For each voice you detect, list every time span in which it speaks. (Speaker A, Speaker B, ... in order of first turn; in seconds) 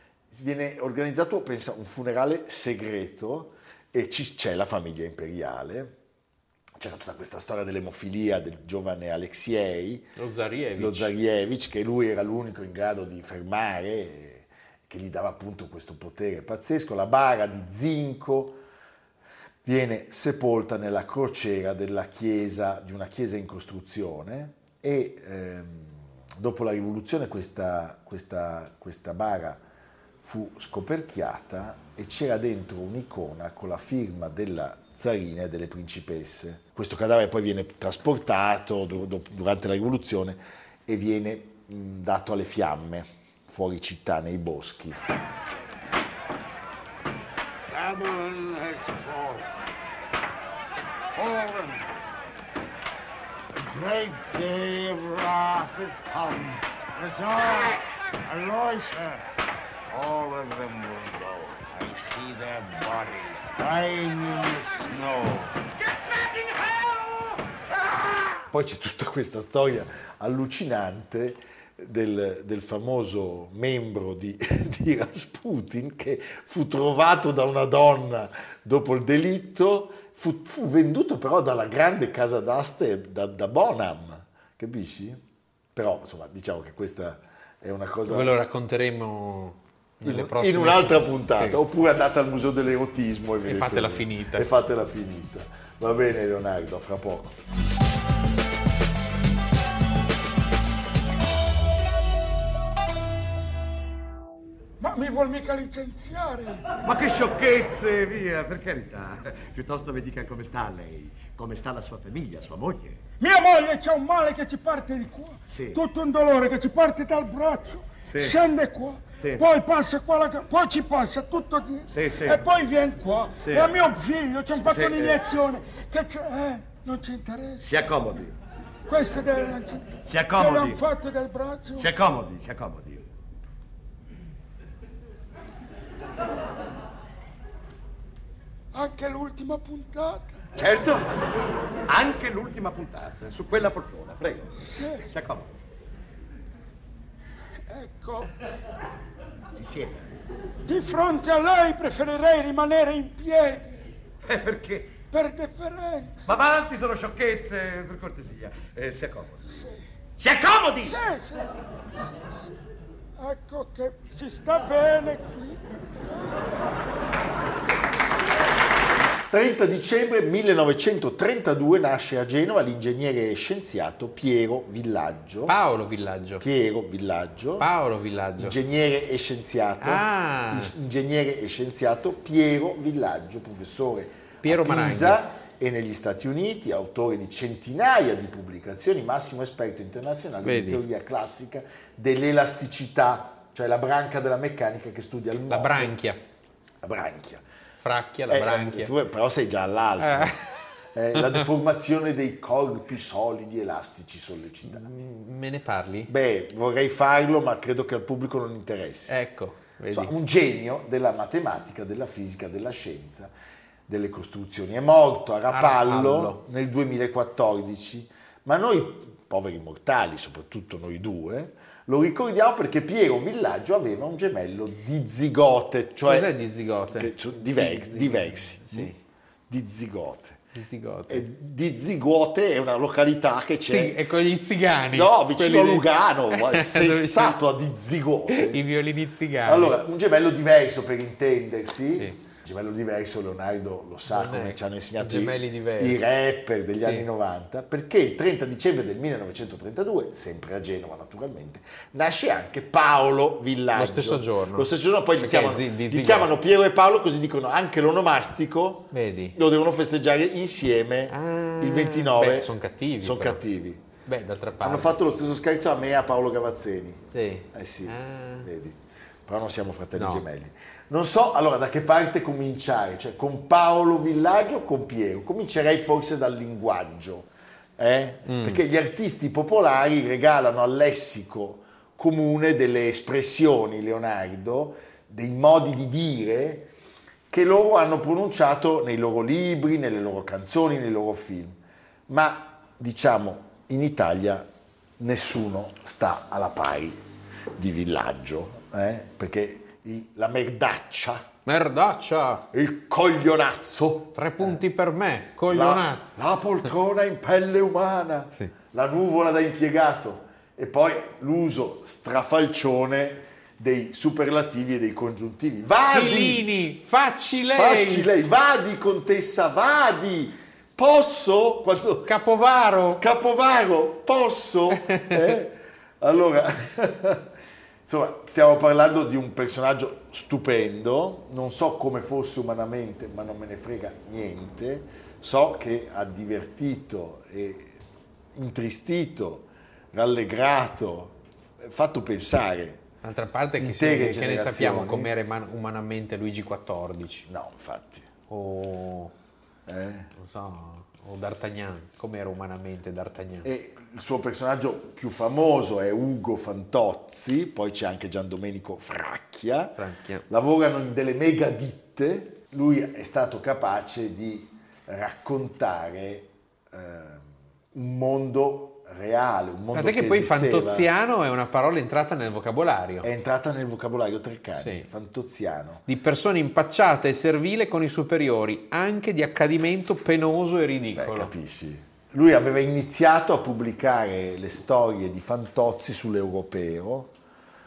Speaker A: 0.3-5.9, 6.8-10.1, 10.8-18.6, 19.6-29.6, 30.2-45.0, 68.5-85.2, 85.7-88.4, 90.0-97.4, 169.3-175.6, 176.4-177.7, 178.4-196.0, 196.8-197.4, 198.3-204.9, 206.1-209.2, 209.9-213.3, 213.9-226.3, 226.9-228.9, 229.5-230.4, 231.1-234.0, 234.9-238.6, 239.4-263.8, 264.6-286.7, 287.3-294.5, 295.0-297.0, 297.6-301.3, 302.5-304.6, 305.5-316.4, 317.5-322.1, 323.0-327.3, 327.8-337.8, 338.3-342.8, 343.6-345.1, 347.3-348.1, 349.6-350.1, 353.4-370.9, 373.0-375.8, 380.9-387.1
Speaker B: 10.2-11.1, 88.1-91.6, 93.4-94.5, 175.5-176.4, 177.6-178.6, 179.8-180.7, 184.4-185.2, 190.4-190.8, 195.5-196.2, 197.8-198.9, 200.0-200.4, 204.7-206.1, 209.1-210.1, 215.5-216.4, 226.0-229.0, 230.5-231.2, 233.7-237.4, 238.3-239.8, 244.1-246.0, 253.7-256.3, 258.9-259.4, 261.1-263.4, 264.1-264.9, 267.1-268.5, 269.9-270.2, 278.3-278.6, 301.4-302.5, 304.1-306.1, 315.9-318.1, 322.0-323.0, 324.7-325.4, 343.0-347.2, 348.3-349.1, 350.1-353.5, 359.8-360.2, 369.7-373.1, 374.6-374.9, 375.9-381.3
Speaker C: 47.7-49.5, 51.1-52.0, 53.6-59.2, 59.9-65.7, 66.3-67.3, 68.0-68.3
Speaker D: 104.8-106.7, 113.2-127.8, 128.9-131.9, 138.7-140.4, 144.6-145.1, 147.7-148.3, 150.7-153.8, 155.1-156.3, 159.5-159.8, 160.8-162.5, 163.2-165.6
Speaker E: 106.8-113.0, 115.5-115.8, 118.1-118.4, 119.2-119.5, 121.9-122.4, 123.4-123.8, 124.6-125.2, 127.6-128.3, 130.0-130.8, 131.8-133.1, 140.6-141.1, 141.9-144.5, 145.1-145.5, 149.5-150.0, 154.2-155.0, 156.3-159.5, 160.2-160.9